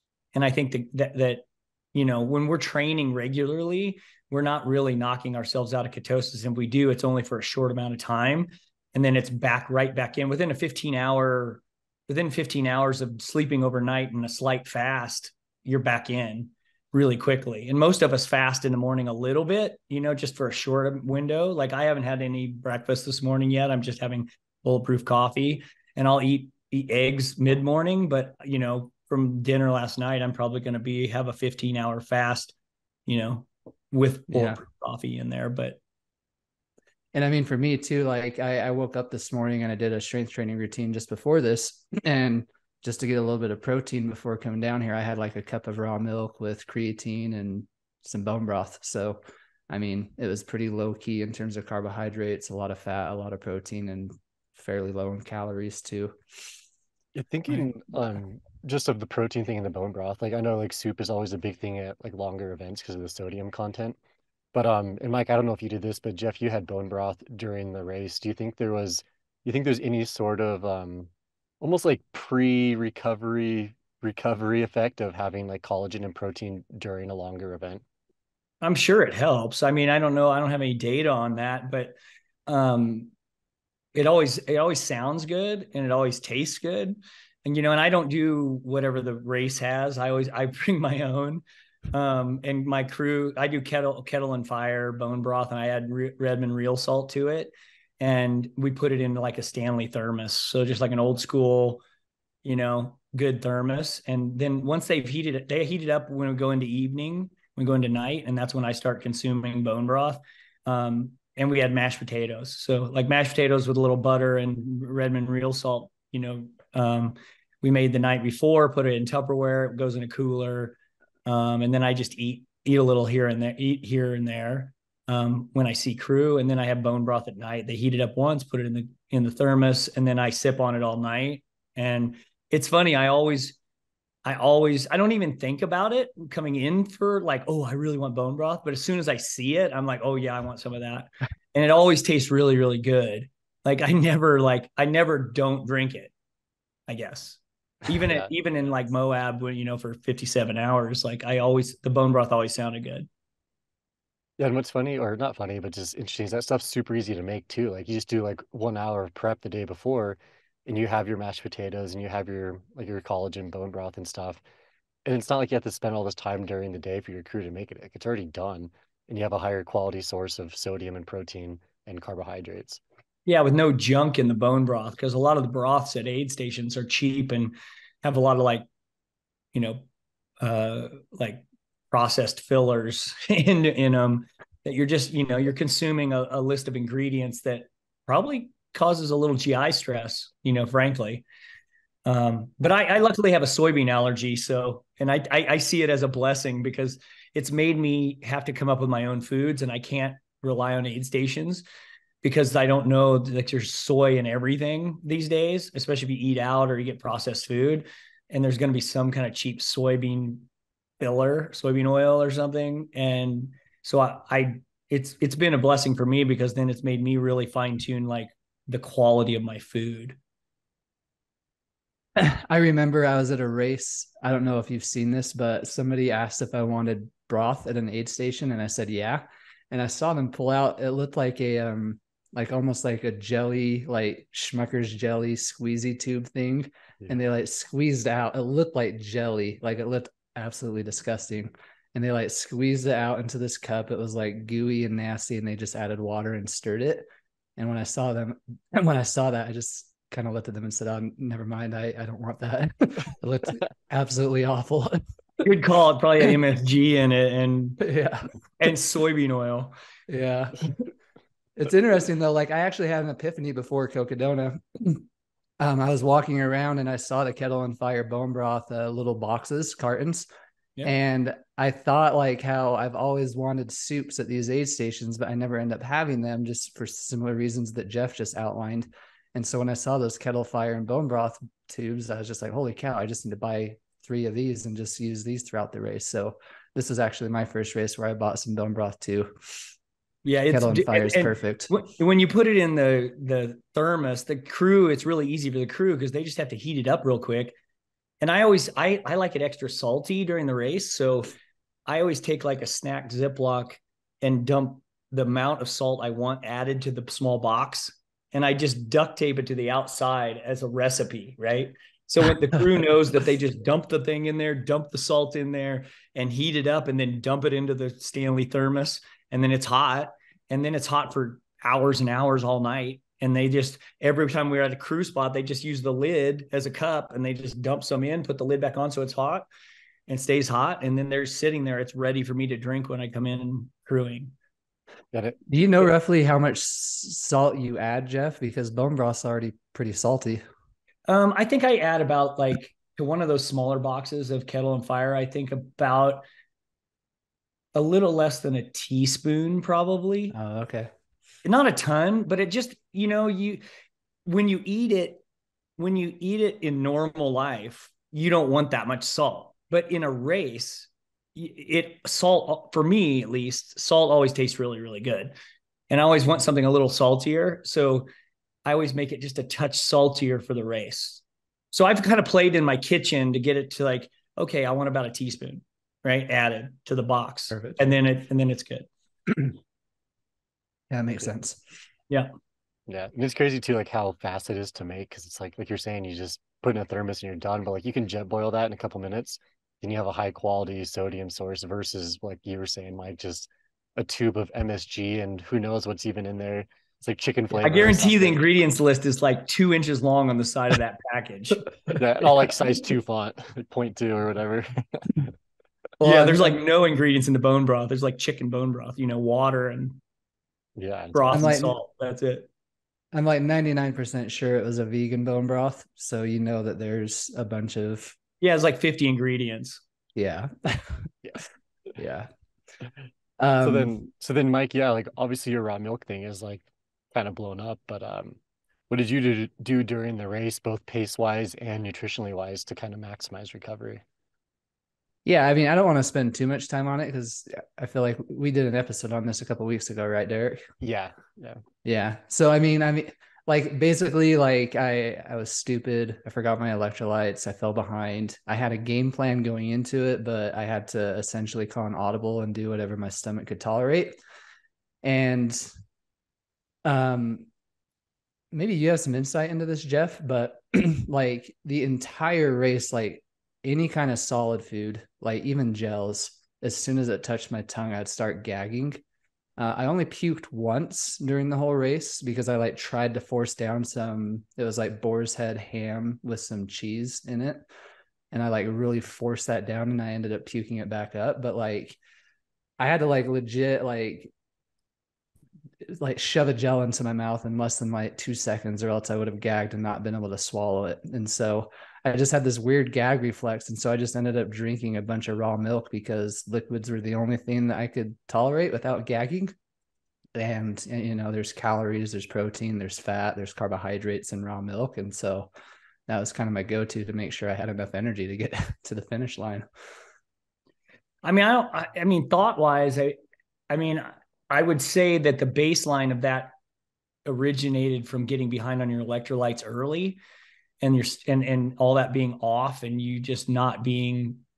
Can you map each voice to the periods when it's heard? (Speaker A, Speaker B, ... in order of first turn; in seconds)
Speaker A: 0.3-32.5, 33.1-35.8, 78.6-83.1, 83.9-101.8, 102.4-133.6, 134.2-146.1, 146.9-153.1, 173.3-178.6, 179.5-179.8, 180.4-191.2, 192.0-201.6, 202.2-210.5, 211.0-220.2, 255.4-257.8, 258.6-259.7, 290.2-297.6, 298.2-301.3, 301.9-329.5, 330.1-334.3, 341.1-346.2, 347.7-350.3, 351.4-353.6, 354.2-355.2, 355.8-365.3, 365.9-368.1, 368.6-378.9, 397.6-401.7, 406.0-410.0, 411.1-412.5, 418.4-419.8, 511.2-513.1, 513.7-516.5, 517.2-520.2, 520.8-524.4
Speaker B: 34.3-34.6, 37.1-56.1, 222.2-247.1, 247.6-255.0, 257.8-258.3, 260.1-260.7, 261.6-265.0, 265.6-270.3, 270.8-289.6, 290.5-291.7, 335.5-340.4, 350.3-350.9, 377.5-377.8, 380.9-381.6, 406.0-406.6, 411.3-411.8, 413.1-418.1, 420.1-421.1, 421.9-422.3, 423.4-423.9, 435.2-440.6, 441.8-454.2, 455.0-455.7, 456.8-457.5, 458.5-469.0, 469.6-477.6, 478.3-482.0, 482.8-484.3, 485.9-499.5, 500.4-505.5, 506.1-509.6
Speaker C: 57.1-64.0, 64.5-71.1, 71.6-77.8, 154.4-164.4, 165.0-172.8, 335.1-335.4, 382.9-398.4, 401.9-405.3, 410.8-411.5, 423.6-428.4, 428.9-434.0, 440.8-441.6